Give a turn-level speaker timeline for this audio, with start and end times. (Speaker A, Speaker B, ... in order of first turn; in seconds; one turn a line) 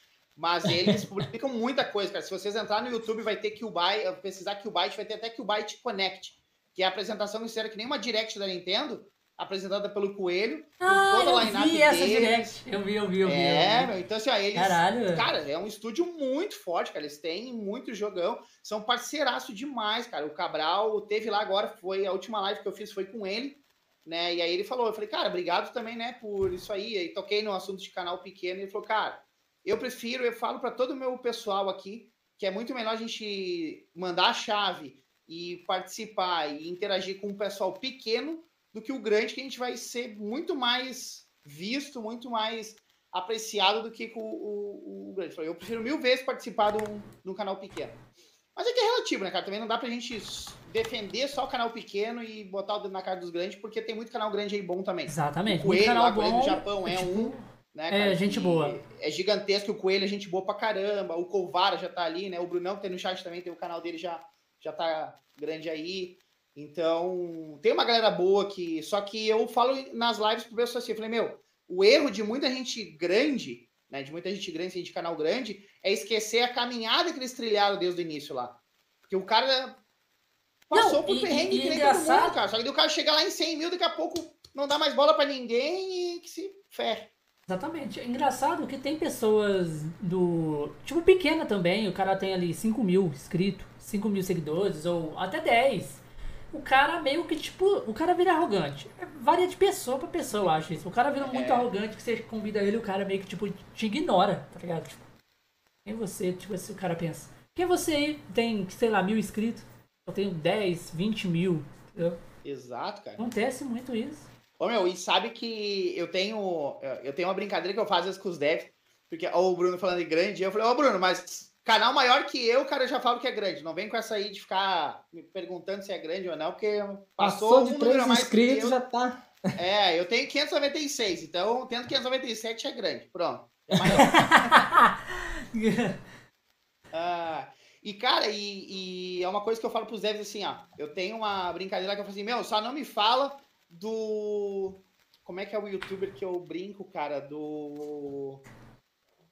Speaker A: 0.3-12.5
Speaker B: 0.7-1.0
Speaker C: 10.8-13.9
Speaker A: 13.2-23.5
Speaker C: 14.5-15.3
Speaker A: 24.0-47.9
Speaker A: 48.5-78.5
Speaker C: 55.1-58.8
Speaker A: 79.1-79.7
Speaker A: 80.7-87.0
Speaker C: 80.7-82.3
Speaker C: 87.5-105.0
Speaker A: 101.2-101.7
Speaker C: 105.8-112.2
Speaker A: 112.4-113.2
Speaker C: 113.2-114.3
Speaker A: 114.6-128.8
Speaker B: 127.2-129.5
Speaker A: 129.6-134.6
Speaker B: 133.8-134.0
Speaker C: 133.9-136.0
Speaker A: 136.9-148.4